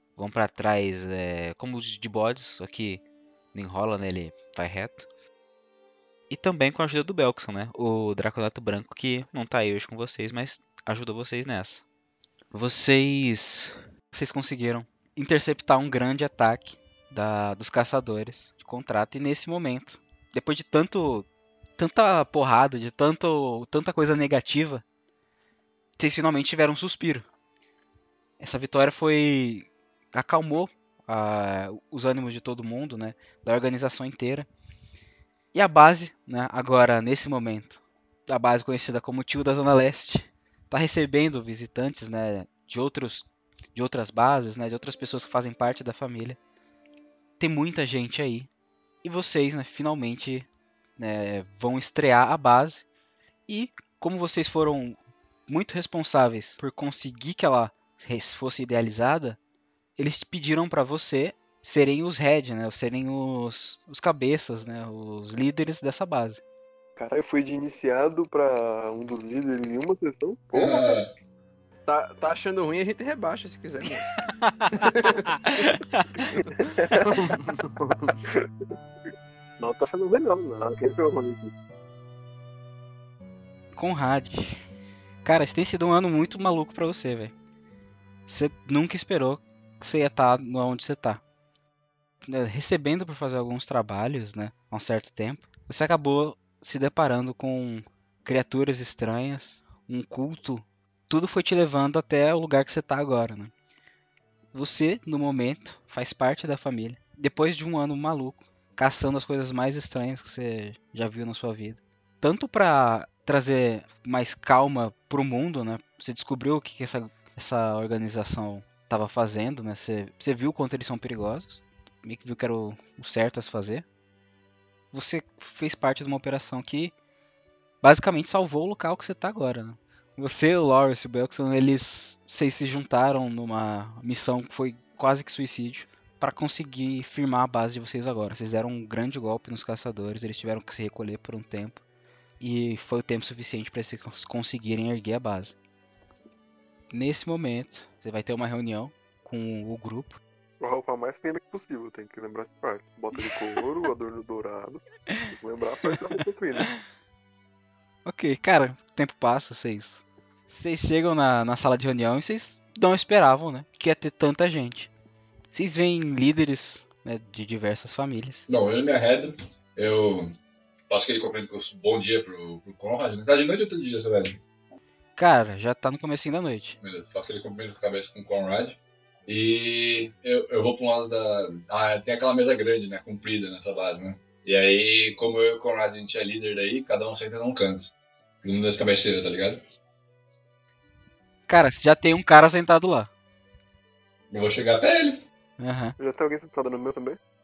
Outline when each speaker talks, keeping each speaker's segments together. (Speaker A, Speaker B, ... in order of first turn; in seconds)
Speaker A: 0.2-3.0, 3.5-5.1, 6.3-11.8, 12.5-21.3, 21.8-24.8, 26.0-27.3, 28.4-34.5, 35.5-46.4, 47.4-48.5, 49.0-50.5, 51.0-52.9, 53.5-59.4, 60.0-66.4, 74.4-76.3, 83.8-84.6, 85.2-87.3, 88.3-91.2, 92.2-103.5, 104.5-123.8, 124.9-126.9, 127.8-141.8, 142.4-145.6, 146.9-150.2, 158.1-164.9, 165.5-168.4, 175.2-176.8, 191.5-193.1, 195.6-195.9
Speaker B: 67.0-71.0, 76.3-77.1, 79.6-81.5, 150.6-156.7, 196.0-197.2
Speaker C: 70.5-71.1, 168.5-170.4, 170.9-174.4, 176.8-189.6, 194.3-195.2
Speaker D: 71.9-74.2, 74.7-75.4, 76.5-78.2